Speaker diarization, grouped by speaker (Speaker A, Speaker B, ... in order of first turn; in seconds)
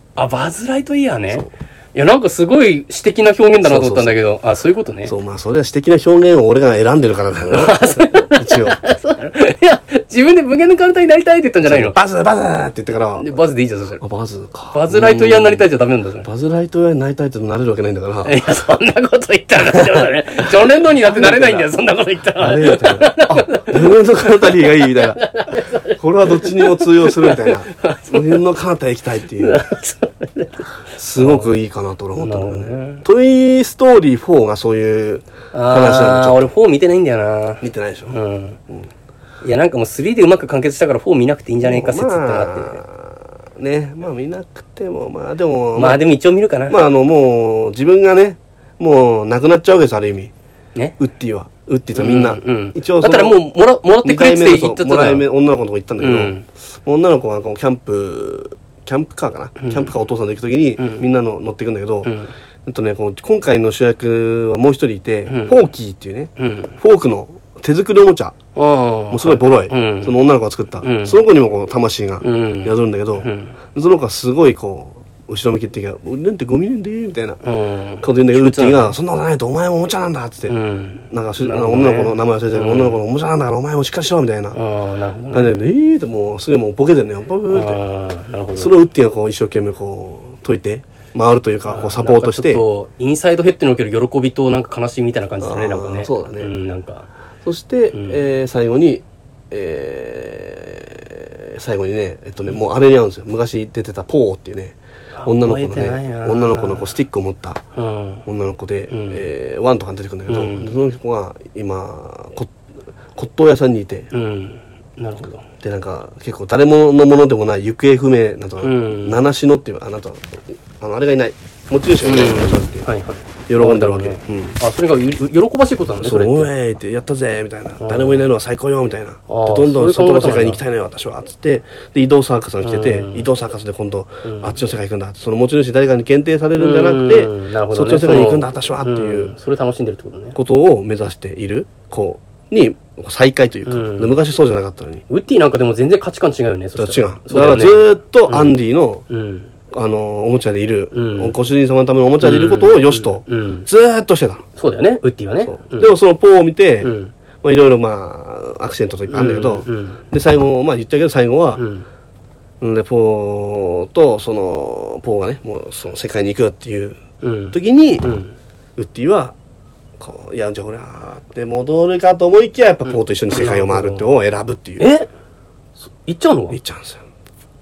Speaker A: 0.2-5.2, 7.5-12.0, 13.2-14.0, 14.7-16.3, 18.2-28.4, 29.4-31.5, 32.2-33.0, 35.5-38.6, 39.4-42.8, 45.8-46.8, 52.0-55.3, 56.0-56.5, 59.6-59.9, 60.8-61.0, 62.0-62.3, 65.3-65.6, 66.4-66.8, 68.5-70.2, 70.8-71.2, 72.2-73.6, 77.4-79.0, 80.5-83.0, 84.5-85.6, 87.5-88.7, 91.7-97.1, 97.9-98.2, 105.2-106.9, 107.8-108.2, 108.9-109.2, 110.3-110.7, 114.1-115.5, 118.6-119.2, 122.0-126.5, 127.8-128.3, 129.3-130.6, 132.6-133.3, 134.2-134.6, 136.6-140.4, 143.7-144.2, 145.1-148.6, 149.1-149.5, 150.9-151.4, 152.2-153.7, 154.6-155.9, 156.8-157.1, 159.1-160.0, 161.6-161.9, 167.2-168.3, 172.9-174.1, 174.8-175.1, 175.9-176.6
Speaker B: 3.6-4.2, 5.1-8.8, 11.7-13.3, 14.0-15.7, 16.2-18.4, 19.6-20.1, 21.0-21.7, 22.4-25.2, 25.8-29.6, 31.0-36.5, 37.6-38.2, 41.6-46.0, 46.7-50.3, 51.0-53.4, 54.0-68.4, 69.1-77.4, 78.0-80.5, 81.1-84.6, 85.3-87.8, 88.5-92.6, 95.4-96.5, 97.4-107.6, 108.3-112.5, 113.2-114.1, 115.4-122.9, 123.5-124.6, 126.0-139.3, 140.3-145.1, 146.8-149.1, 149.7-154.4, 155.5-161.6, 162.6-167.0, 167.5-168.2, 168.8-169.3, 170.0-174.9, 176.5-177.0